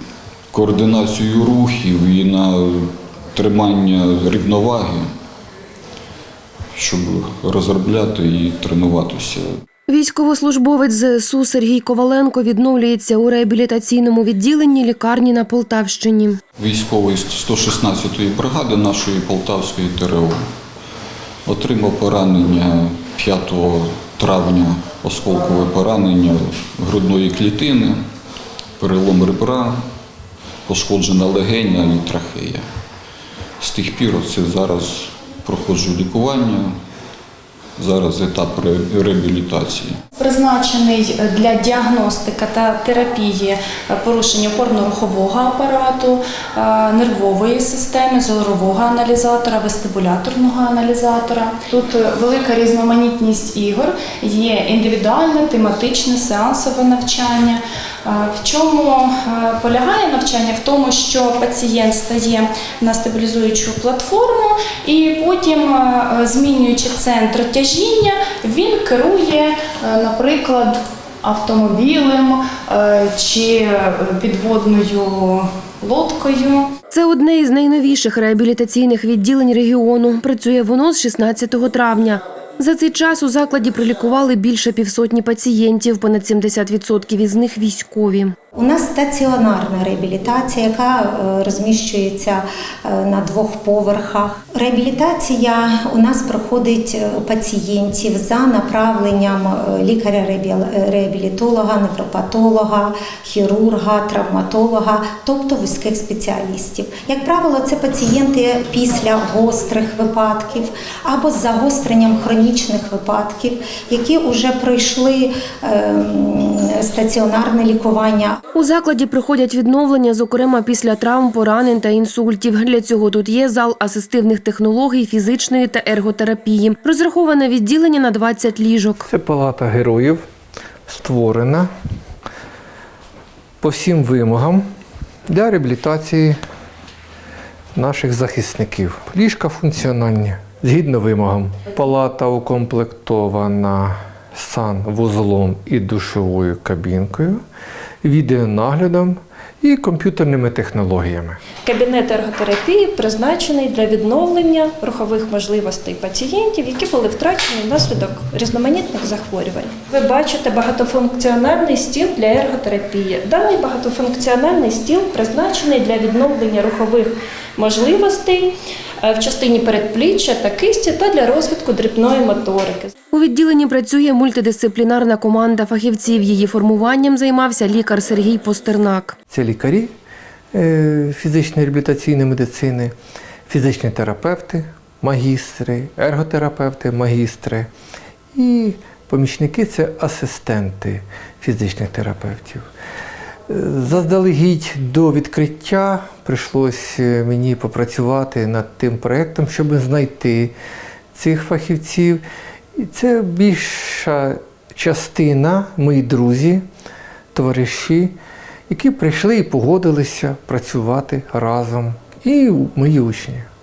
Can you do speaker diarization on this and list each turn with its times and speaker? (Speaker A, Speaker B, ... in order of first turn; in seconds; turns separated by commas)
Speaker A: 0.5-5.1, Speaker A: 6.8-9.5, Speaker B: 9.9-16.4, Speaker A: 16.6-20.4, Speaker A: 21.5-28.0, Speaker A: 28.8-29.8, Speaker A: 30.7-32.6, Speaker A: 33.6-36.7, Speaker A: 37.8-40.0, Speaker C: 40.2-76.7, Speaker B: 76.9-88.3, Speaker D: 88.5-118.4, Speaker B: 118.5-129.1, Speaker E: 129.1-130.2, Speaker E: 130.9-131.7, Speaker E: 133.6-134.6, Speaker E: 135.3-136.4, Speaker E: 137.8-147.4, Speaker E: 148.0-151.4, Speaker F: 151.6-168.5, Speaker F: 169.0-172.9, Speaker B: 173.1-179.2, Speaker E: 179.3-179.9, Speaker E: 180.5-182.9, Speaker E: 183.5-187.7, Speaker E: 188.3-192.7, Speaker E: 193.5-200.5, Speaker E: 201.1-202.2, Speaker E: 202.8-206.6, Speaker E: 207.3-208.2, Speaker E: 208.7-213.5